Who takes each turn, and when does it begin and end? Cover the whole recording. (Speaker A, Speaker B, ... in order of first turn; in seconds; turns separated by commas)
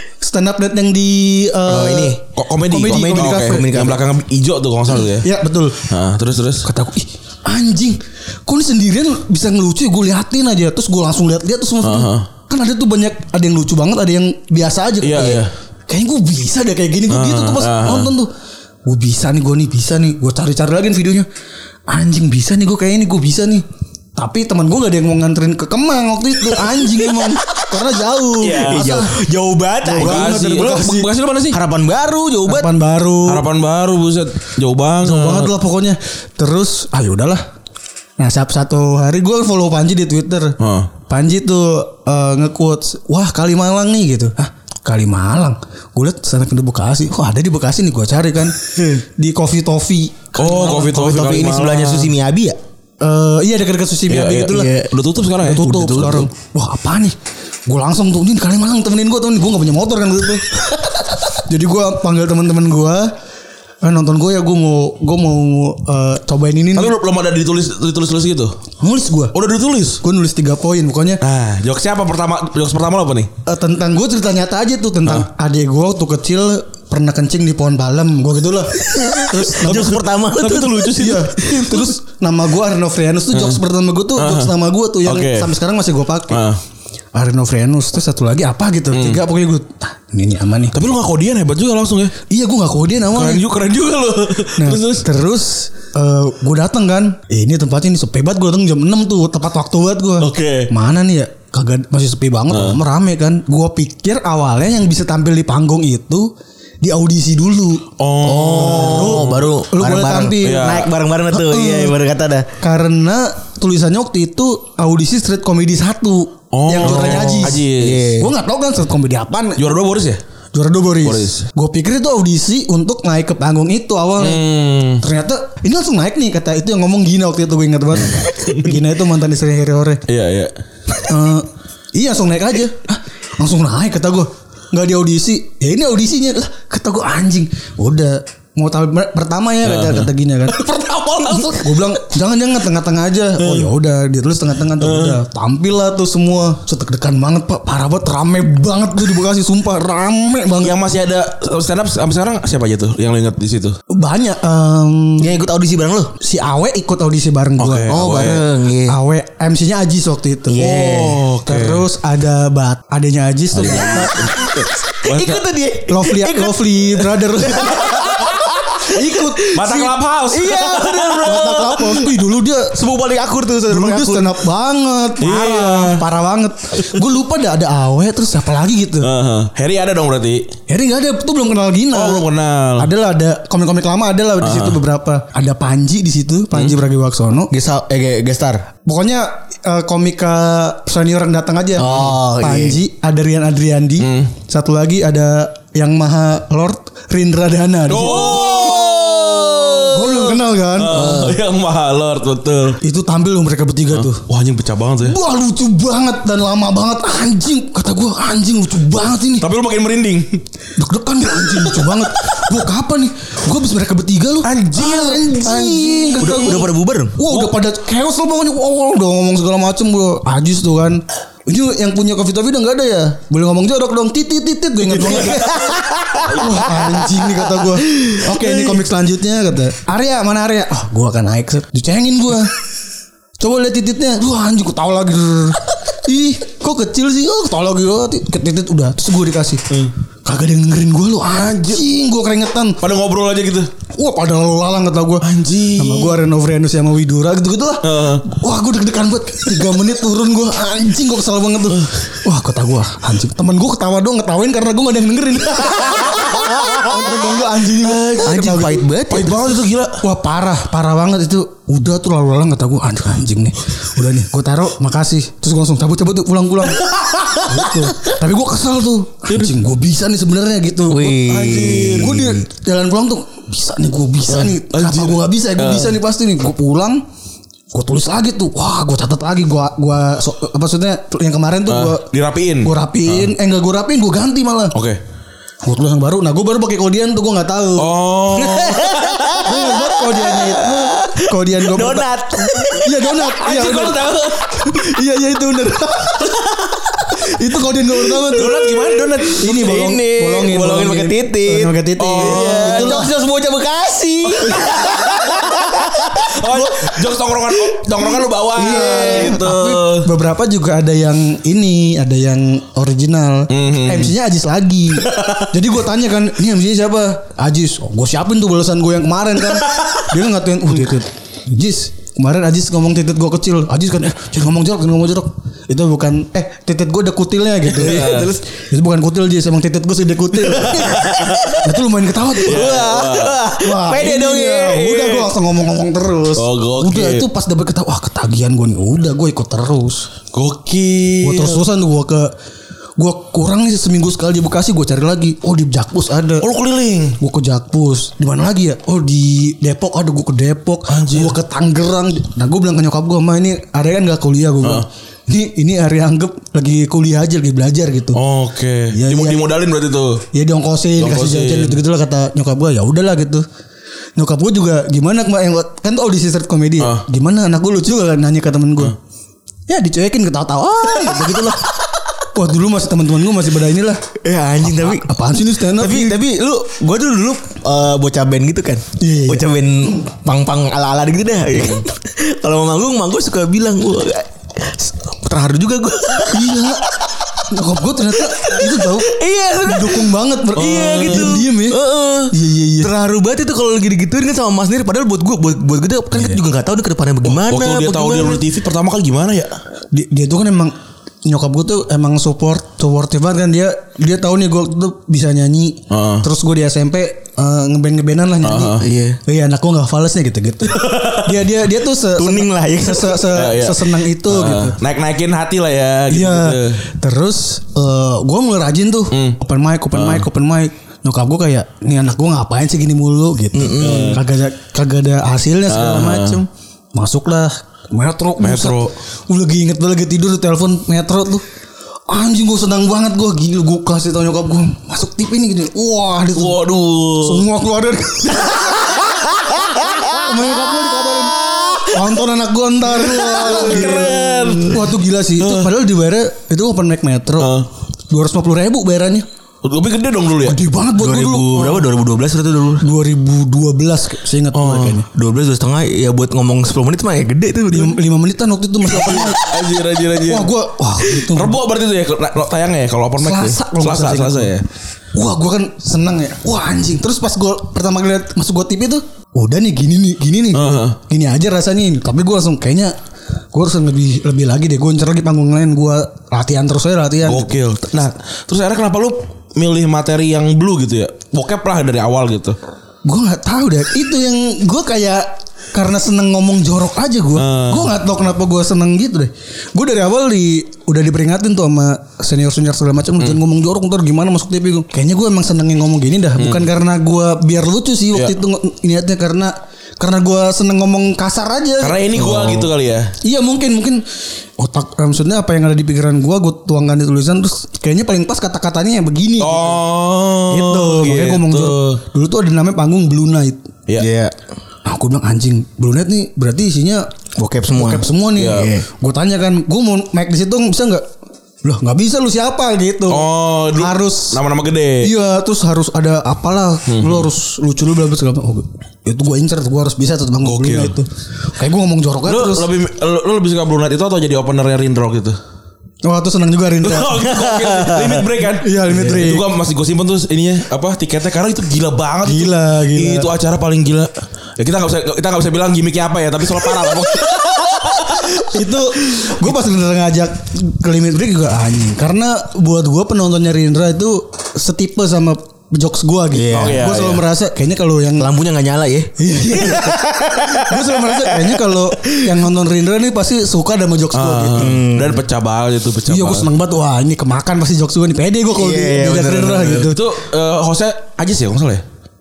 Speaker A: 0.2-2.1, Speaker B: 1.7-2.2, Speaker C: 1.8-5.3, Speaker A: 2.7-3.6, Speaker B: 2.7-4.0, Speaker A: 5.2-5.9, Speaker C: 5.8-6.7, Speaker A: 6.6-18.3, Speaker C: 11.8-12.3, Speaker C: 15.0-15.5, Speaker C: 17.1-18.1, Speaker A: 18.8-21.3, Speaker A: 21.9-23.6, Speaker A: 24.2-29.1, Speaker C: 28.4-29.0, Speaker B: 28.5-30.4, Speaker A: 29.8-31.1, Speaker C: 30.0-31.6, Speaker B: 31.5-32.7, Speaker A: 32.5-33.4, Speaker C: 33.2-35.5, Speaker A: 35.0-37.4, Speaker A: 38.2-51.3, Speaker C: 40.6-40.9, Speaker C: 50.4-52.1, Speaker B: 50.5-52.6, Speaker A: 53.0-54.7, Speaker C: 54.1-56.3, Speaker B: 54.5-54.9, Speaker A: 55.4-57.1, Speaker B: 55.6-56.3, Speaker A: 57.6-60.8, Speaker A: 61.3-63.1, Speaker A: 63.8-66.9, Speaker C: 66.8-68.6, Speaker A: 68.8-69.3, Speaker C: 69.3-70.0, Speaker A: 70.0-71.2, Speaker C: 71.2-73.3, Speaker A: 73.4-80.0, Speaker B: 79.0-81.0, Speaker C: 79.7-81.9, Speaker A: 81.0-86.4, Speaker C: 83.3-83.6, Speaker C: 84.2-85.5, Speaker C: 86.3-86.6, Speaker A: 87.1-90.7, Speaker C: 88.9-89.2, Speaker C: 90.7-92.1, Speaker A: 92.3-93.4, Speaker C: 93.1-95.0, Speaker A: 94.6-106.3, Speaker C: 100.2-100.7, Speaker C: 102.5-102.8, Speaker A: 106.8-107.9, Speaker C: 108.0-109.5, Speaker B: 108.2-112.5, Speaker A: 108.6-110.7, Speaker C: 110.4-110.9, Speaker A: 111.3-111.9, Speaker A: 112.6-117.6, Speaker C: 116.5-118.1, Speaker B: 116.8-118.3, Speaker A: 118.2-119.7, Speaker C: 119.6-120.2, Speaker A: 120.5-124.4, Speaker C: 121.0-121.4, Speaker C: 124.2-125.0, Speaker A: 125.0-130.0, Speaker C: 128.0-128.7, Speaker C: 130.1-130.5, Speaker A: 131.0-140.7, Speaker C: 139.6-141.9, Speaker A: 141.2-150.7, Speaker C: 143.4-143.7, Speaker C: 144.8-145.2, Speaker C: 150.6-153.8, Speaker A: 153.9-155.3, Speaker B: 155.2-156.1, Speaker A: 156.2-158.0, Speaker C: 157.6-158.5, Speaker B: 157.9-159.0, Speaker A: 158.9-164.2, Speaker B: 160.5-161.2, Speaker C: 160.7-161.8, Speaker C: 163.6-164.5, Speaker B: 163.6-169.7, Speaker C: 165.0-165.4, Speaker A: 165.9-168.1, Speaker A: 168.8-169.9, Speaker C: 169.5-171.4, Speaker B: 170.3-172.1, Speaker A: 170.8-172.8, Speaker B: 172.7-174.4, Speaker A: 173.7-179.1, Speaker C: 175.2-176.0, Speaker C: 179.0-180.5, Speaker A: 180.7-182.2, Speaker C: 181.9-182.9, Speaker A: 182.8-187.5, Speaker C: 184.4-184.8, Speaker B: 187.5-188.7, Speaker A: 188.8-198.6, Speaker B: 191.8-192.8, Speaker C: 194.0-194.3, Speaker C: 197.9-199.8, Speaker B: 198.0-200.3, Speaker A: 199.9-201.2, Speaker C: 200.7-202.8, Speaker B: 200.9-201.4, Speaker A: 202.8-204.2, Speaker C: 203.9-205.2, Speaker A: 205.0-209.4, Speaker C: 209.4-210.4, Speaker A: 210.8-232.5, Speaker C: 214.4-216.7, Speaker B: 216.2-217.2, Speaker C: 217.3-217.5, Speaker C: 225.1-225.4, Speaker A: 233.4-239.7, Speaker A: 240.2-242.8, Speaker C: 241.3-241.8, Speaker C: 242.8-243.7, Speaker A: 243.9-258.8, Speaker C: 245.2-246.2, Speaker C: 247.8-248.2, Speaker C: 257.8-260.0, Speaker B: 258.2-259.5, Speaker A: 260.0-266.9, Speaker A: 267.4-271.2, Speaker B: 270.9-272.4, Speaker C: 271.0-272.2, Speaker A: 271.9-277.0, Speaker C: 274.3-275.9, Speaker A: 277.7-282.1, Speaker C: 281.7-283.3, Speaker A: 282.6-284.7, Speaker C: 284.7-285.0, Speaker A: 285.6-287.9, Speaker C: 287.8-289.2, Speaker B: 288.4-293.0, Speaker A: 289.3-292.1, Speaker A: 292.7-296.3, Speaker C: 293.4-294.5, Speaker A: 297.1-298.7, Speaker B: 298.3-306.4, Speaker C: 298.3-299.8, Speaker A: 299.3-303.1, Speaker C: 302.0-303.0, Speaker C: 304.4-310.1, Speaker B: 308.6-309.4, Speaker A: 308.6-332.7, Speaker C: 313.5-314.1, Speaker C: 315.1-315.4, Speaker B: 327.7-328.4, Speaker C: 327.7-328.3, Speaker C: 330.5-331.5, Speaker B: 330.8-331.6, Speaker B: 332.4-335.3, Speaker C: 332.4-333.4, Speaker A: 333.6-340.1, Speaker C: 336.3-337.2, Speaker C: 340.3-341.6, Speaker A: 341.2-342.3, Speaker A: 343.0-346.5, Speaker C: 346.4-347.2, Speaker A: 347.2-358.2, Speaker C: 350.9-351.4, Speaker C: 358.1-360.2, Speaker A: 358.9-359.4, Speaker A: 360.3-363.4, Speaker C: 361.0-361.8, Speaker A: 364.2-368.9, Speaker C: 366.8-367.0, Speaker A: 369.7-371.6, Speaker A: 372.3-374.0, Speaker B: 374.2-386.7, Speaker A: 374.6-376.2, Speaker A: 379.0-379.4, Speaker C: 381.6-381.8, Speaker A: 386.3-386.9, Speaker A: 387.5-392.9, Speaker B: 388.2-398.4, Speaker C: 390.6-391.4, Speaker C: 397.3-399.5, Speaker A: 399.9-400.7, Speaker A: 401.2-414.8, Speaker C: 405.9-406.2, Speaker C: 408.4-408.8, Speaker B: 408.8-409.2, Speaker B: 412.1-413.4, Speaker C: 413.3-416.8, Speaker A: 416.1-431.4, Speaker C: 419.1-419.4, Speaker C: 419.9-420.2, Speaker B: 423.5-424.2, Speaker C: 423.8-424.2, Speaker C: 425.7-426.4, Speaker C: 428.4-428.9, Speaker A: 432.1-436.6, Speaker C: 436.3-437.5, Speaker A: 437.1-439.0, Speaker A: 440.0-447.5, Speaker C: 443.1-445.7, Speaker B: 443.8-444.6, Speaker C: 447.4-447.6, Speaker A: 448.1-449.2, Speaker C: 449.6-450.6, Speaker A: 450.4-451.7, Speaker B: 450.9-452.9, Speaker C: 451.6-451.8, Speaker A: 452.8-455.1, Speaker C: 454.5-455.0, Speaker B: 455.1-458.0, Speaker A: 457.7-459.5, Speaker C: 458.9-460.5, Speaker A: 460.2-461.6, Speaker C: 461.1-464.6, Speaker A: 463.2-464.5, Speaker A: 465.1-472.9, Speaker C: 470.5-471.0, Speaker A: 473.5-477.4, Speaker C: 477.2-482.6, Speaker A: 483.0-502.3, Speaker C: 487.3-487.9, Speaker C: 496.4-496.7, Speaker C: 501.8-503.1, Speaker B: 502.2-502.7, Speaker A: 503.2-504.0, Speaker A: 504.6-509.8, Speaker C: 509.4-512.0, Speaker A: 510.5-513.7, Speaker B: 514.0-514.4, Speaker A: 514.8-517.1, Speaker B: 517.4-518.9, Speaker A: 517.7-521.0, Speaker C: 518.4-518.7, Speaker A: 521.6-524.4, Speaker C: 523.1-525.1, Speaker A: 525.0-532.7, Speaker C: 526.9-527.3, Speaker C: 530.4-531.0, Speaker C: 532.2-535.4, Speaker A: 536.0-537.3, Speaker C: 536.8-548.5, Speaker B: 537.2-538.3, Speaker A: 538.5-539.5, Speaker A: 542.2-543.3, Speaker A: 548.3-558.3, Speaker C: 549.2-549.5, Speaker B: 556.3-557.0, Speaker C: 556.5-557.2, Speaker B: 558.2-559.1, Speaker A: 559.2-564.7, Speaker C: 564.1-566.5, Speaker B: 564.5-565.2, Speaker A: 566.1-570.0, Speaker B: 568.5-569.9, Speaker C: 569.7-571.8